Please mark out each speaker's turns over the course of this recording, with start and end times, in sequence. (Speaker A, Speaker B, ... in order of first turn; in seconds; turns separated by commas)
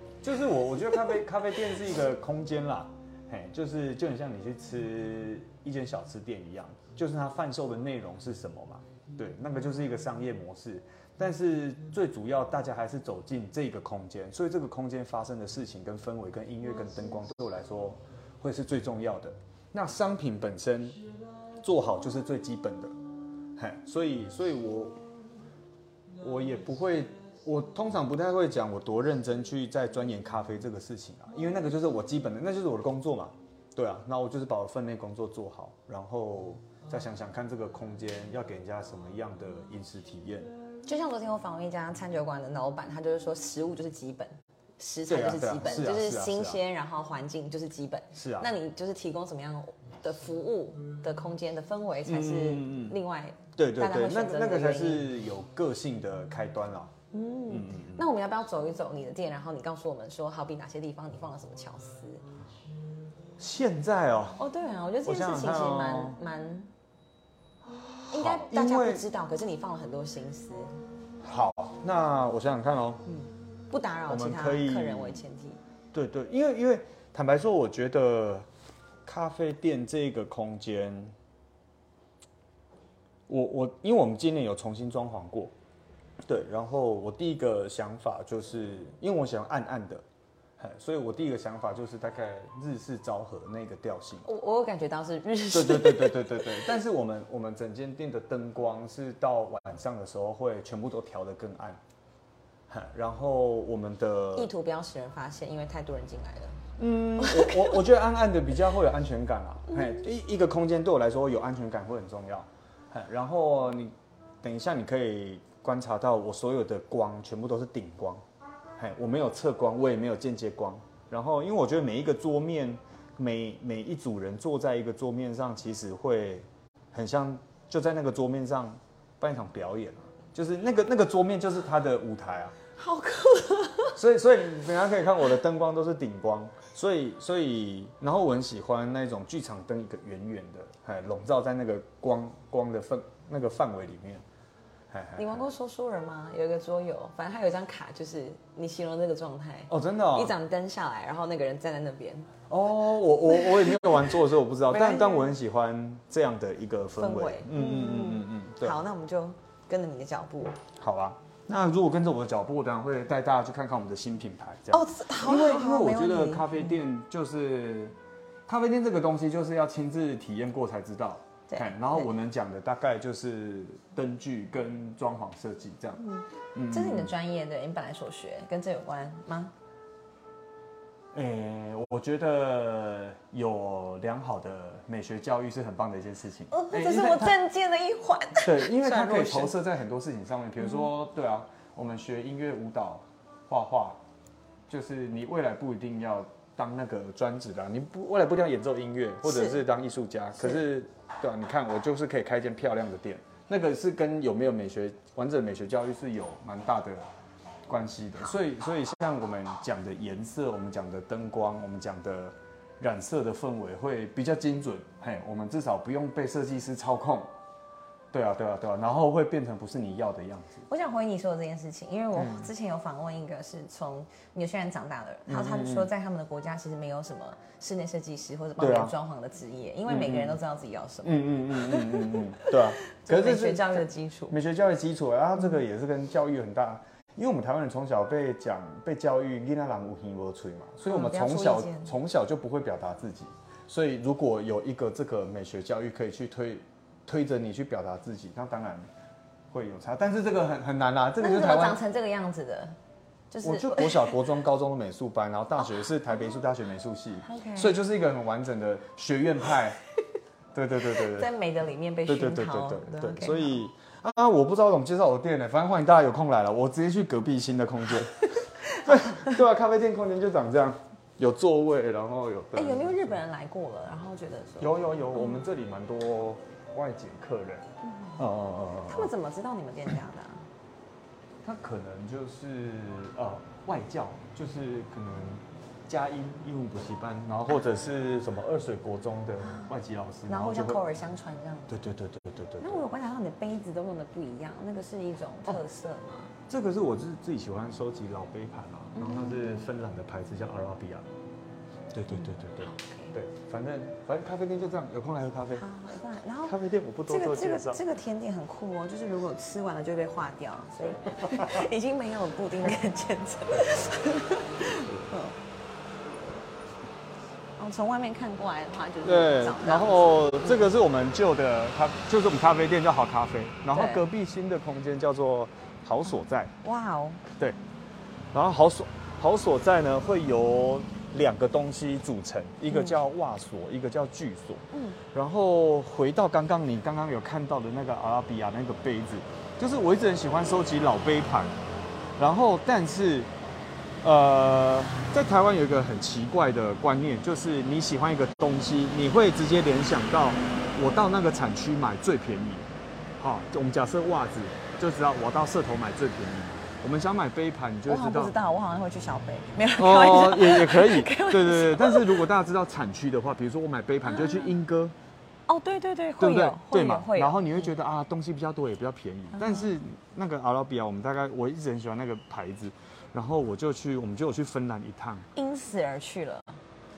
Speaker A: 0.2-21.0, Speaker A: 21.6-22.9, Speaker A: 23.6-25.0, Speaker A: 26.2-40.5, Speaker B: 40.8-55.1, Speaker A: 45.1-46.6, Speaker A: 48.1-48.5, Speaker A: 52.0-53.0, Speaker A: 53.6-56.9, Speaker B: 57.1-62.2, Speaker A: 57.5-58.1, Speaker A: 63.4-64.4, Speaker B: 64.4-66.7, Speaker A: 65.0-66.2, Speaker A: 67.7-69.0, Speaker B: 68.1-70.8, Speaker A: 71.2-73.0, Speaker B: 73.1-75.6, Speaker A: 74.1-75.2, Speaker A: 75.9-78.5, Speaker A: 79.0-81.1, Speaker A: 83.3-85.5, Speaker A: 86.2-90.0, Speaker A: 90.6-94.2, Speaker B: 94.2-96.7, Speaker A: 95.5-101.8, Speaker A: 102.7-104.5, Speaker B: 104.3-106.6, Speaker A: 106.8-118.2, Speaker B: 107.2-107.8, Speaker A: 118.8-132.5, Speaker B: 132.8-134.0, Speaker A: 133.9-144.2, Speaker A: 144.9-145.4, Speaker B: 145.2-152.3, Speaker A: 149.7-150.3, Speaker A: 152.5-158.8, Speaker B: 153.4-154.1, Speaker B: 154.7-155.3, Speaker B: 157.0-160.6, Speaker A: 160.8-167.9, Speaker B: 164.7-166.8, Speaker A: 168.5-176.0, Speaker B: 171.5-172.1, Speaker B: 176.0-179.5, Speaker A: 176.5-177.1, Speaker A: 181.1-187.4, Speaker B: 186.5-189.5, Speaker A: 188.4-194.0, Speaker A: 194.7-207.0, Speaker B: 199.2-199.6, Speaker A: 207.7-217.3, Speaker A: 218.1-220.7, Speaker B: 220.7-234.3, Speaker A: 222.1-222.5, Speaker A: 225.3-225.9, Speaker A: 228.6-228.9, Speaker A: 229.9-230.4, Speaker A: 231.0-248.9, Speaker B: 240.8-241.9, Speaker A: 249.5-251.8, Speaker B: 251.2-252.7, Speaker B: 253.3-254.2, Speaker A: 253.4-259.8, Speaker B: 257.2-257.8, Speaker A: 260.5-261.3, Speaker B: 260.9-263.6, Speaker A: 262.1-273.2, Speaker B: 268.6-269.4, Speaker B: 272.5-275.4, Speaker A: 274.6-277.6, Speaker B: 277.8-278.2, Speaker A: 278.2-279.1, Speaker B: 278.8-280.4, Speaker A: 281.4-290.8, Speaker B: 290.3-291.8, Speaker A: 291.7-292.8, Speaker B: 292.6-296.3, Speaker A: 296.5-301.1, Speaker B: 298.9-299.7, Speaker A: 301.9-305.7, Speaker B: 302.1-303.1, Speaker B: 305.6-315.3, Speaker A: 306.4-307.8, Speaker B: 317.6-320.7, Speaker A: 319.0-326.5, Speaker B: 323.7-324.0, Speaker B: 326.6-327.2, Speaker A: 328.3-341.5, Speaker B: 332.7-332.9, Speaker B: 334.7-335.0, Speaker A: 342.2-343.3, Speaker A: 344.0-352.7, Speaker A: 353.2-358.3, Speaker B: 357.9-362.2, Speaker A: 359.8-364.9, Speaker B: 364.1-364.5, Speaker B: 365.5-367.4, Speaker A: 366.2-375.3, Speaker B: 369.3-369.7, Speaker B: 375.3-376.6